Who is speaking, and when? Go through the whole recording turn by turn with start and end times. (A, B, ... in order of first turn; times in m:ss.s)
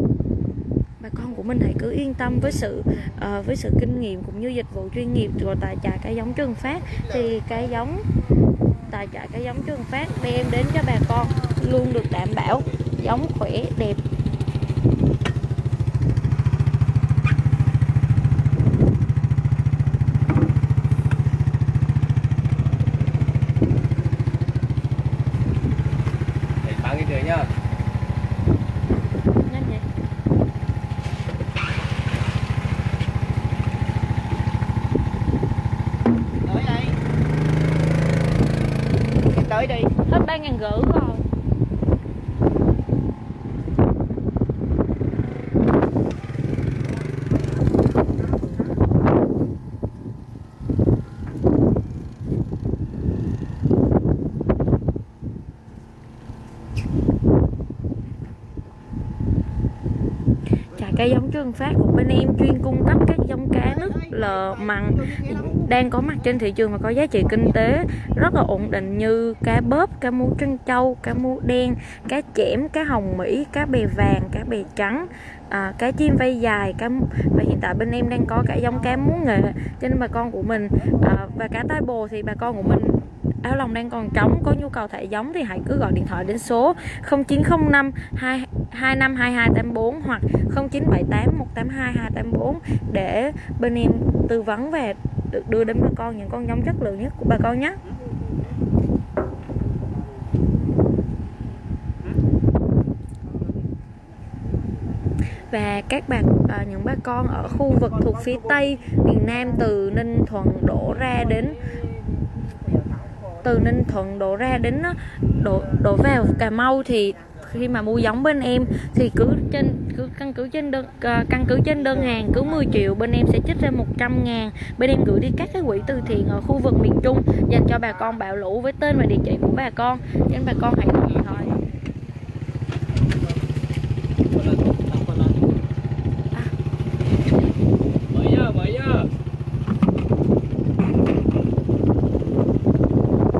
0:01.0-0:08.0 A
0:08.9-0:14.0 A
0:26.6-0:27.5 B
0:29.4-0:29.8 A
0:36.4-0:37.0 C
0:39.3-0:39.9 C
0:40.0-0:41.3 A
1:00.7-1:37.8 A
1:03.6-1:05.7 C
1:45.3-1:51.6 A
1:47.5-1:49.0 C
1:51.4-1:53.4 C
1:53.4-2:11.6 A
2:14.4-2:15.3 B
2:18.1-2:19.0 B